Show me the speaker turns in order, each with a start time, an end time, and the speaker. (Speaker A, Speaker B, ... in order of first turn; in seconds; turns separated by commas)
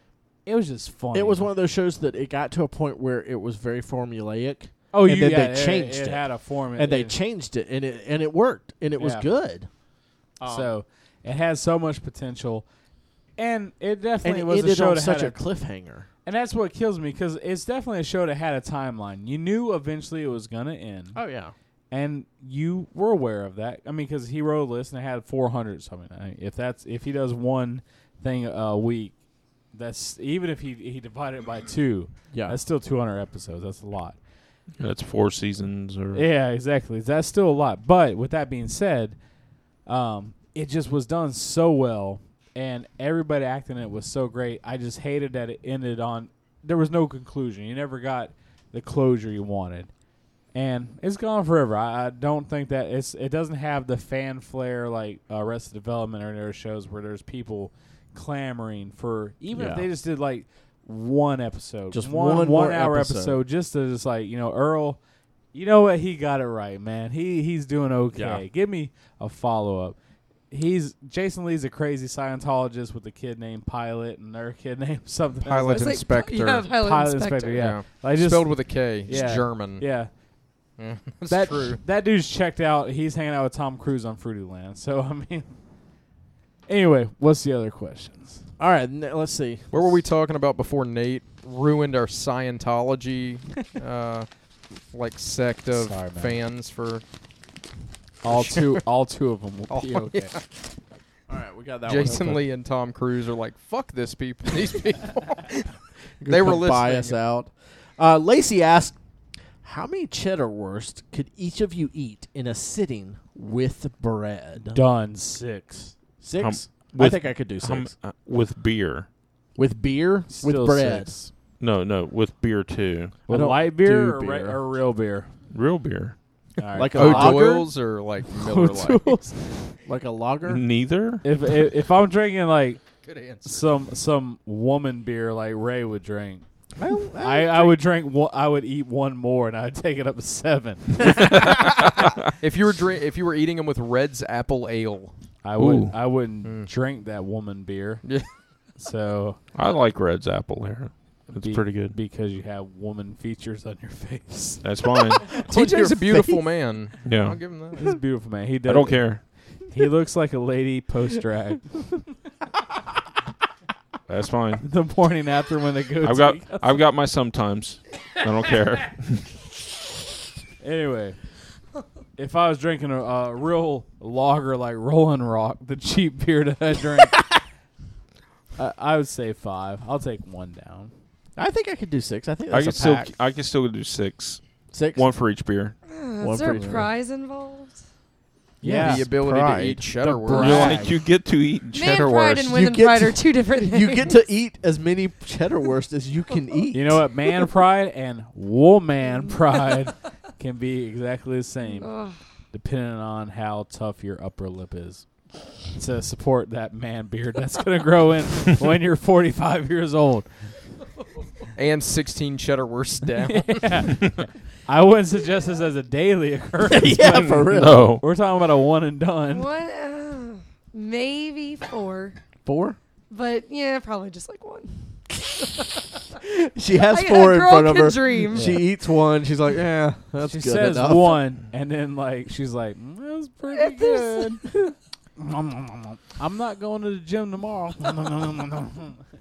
Speaker A: 0.5-1.5, Speaker B: 1.1-6.2, Speaker A: 4.9-7.2, Speaker B: 6.8-9.7, Speaker A: 9.0-9.3, Speaker B: 10.4-10.7, Speaker A: 10.4-12.7, Speaker A: 13.4-15.4, Speaker B: 14.2-16.1, Speaker A: 16.3-21.2, Speaker B: 21.1-21.5, Speaker A: 21.9-29.2, Speaker A: 29.7-34.2, Speaker B: 32.3-32.6, Speaker C: 34.8-36.2, Speaker A: 36.1-39.2, Speaker A: 39.9-49.9, Speaker A: 50.5-65.0, Speaker B: 59.5-59.9, Speaker B: 61.9-63.4, Speaker A: 65.5-70.0, Speaker B: 68.1-68.4, Speaker A: 70.5-76.0, Speaker D: 75.5-76.7, Speaker E: 75.7-77.7, Speaker A: 76.7-80.1, Speaker D: 77.5-79.8, Speaker D: 80.8-81.8, Speaker A: 81.3-85.5, Speaker A: 86.7-88.4, Speaker B: 88.6-90.0, Speaker D: 89.7-94.3, Speaker D: 94.9-97.0, Speaker A: 95.7-96.4, Speaker A: 98.2-100.3, Speaker D: 98.3-98.8, Speaker D: 99.7-100.5, Speaker B: 101.3-102.4, Speaker D: 101.9-105.7, Speaker A: 102.0-102.4, Speaker B: 106.2-109.0, Speaker D: 106.2-107.2, Speaker B: 109.6-114.8, Speaker A: 114.7-116.0, Speaker B: 116.2-117.9, Speaker C: 116.4-119.1, Speaker B: 119.6-121.2, Speaker A: 120.3-121.3, Speaker C: 121.6-123.2, Speaker B: 123.3-124.6, Speaker A: 123.3-125.3, Speaker C: 125.5-126.2, Speaker A: 126.6-127.5, Speaker B: 126.8-127.7, Speaker D: 126.9-129.2, Speaker A: 128.3-129.7, Speaker B: 129.8-130.6, Speaker C: 130.5-131.2, Speaker A: 131.2-132.8, Speaker D: 133.0-133.8, Speaker A: 133.4-136.4, Speaker B: 136.8-137.8, Speaker A: 137.2-141.5, Speaker D: 142.4-145.1, Speaker A: 145.4-148.1, Speaker C: 145.6-146.0, Speaker D: 146.4-146.7, Speaker A: 148.8-149.4, Speaker C: 149.6-152.0, Speaker A: 151.3-154.6, Speaker C: 154.6-155.2, Speaker B: 155.4-156.4, Speaker D: 155.5-157.9, Speaker C: 157.1-157.4, Speaker A: 157.8-159.2, Speaker C: 158.7-159.2, Speaker A: 159.7-162.0, Speaker C: 164.1-164.6, Speaker A: 164.6-166.8, Speaker C: 166.0-169.4, Speaker A: 170.6-171.2, Speaker A: 172.2-177.3, Speaker A: 178.6-180.9, Speaker B: 181.4-183.1, Speaker C: 182.5-184.4, Speaker B: 184.7-185.1, Speaker C: 184.9-185.8, Speaker E: 185.9-187.8, Speaker B: 186.2-186.9, Speaker A: 186.5-186.8, Speaker A: 188.6-189.1, Speaker B: 188.6-190.6, Speaker D: 188.7-190.9, Speaker A: 190.0-190.9, Speaker C: 190.3-192.6, Speaker E: 191.7-194.2, Speaker B: 192.5-197.1, Speaker A: 196.7-201.9, Speaker E: 201.8-202.2, Speaker A: 202.5-205.1, Speaker A: 205.7-210.3, Speaker D: 211.6-214.0, Speaker A: 213.2-219.5, Speaker B: 216.7-217.9, Speaker C: 216.8-218.0, Speaker E: 219.3-222.2, Speaker B: 222.4-222.8, Speaker E: 223.1-224.8, Speaker B: 226.2-231.2, Speaker E: 226.8-228.6, Speaker A: 228.3-228.6, Speaker A: 230.2-234.5, Speaker E: 233.5-234.4, Speaker A: 235.2-239.0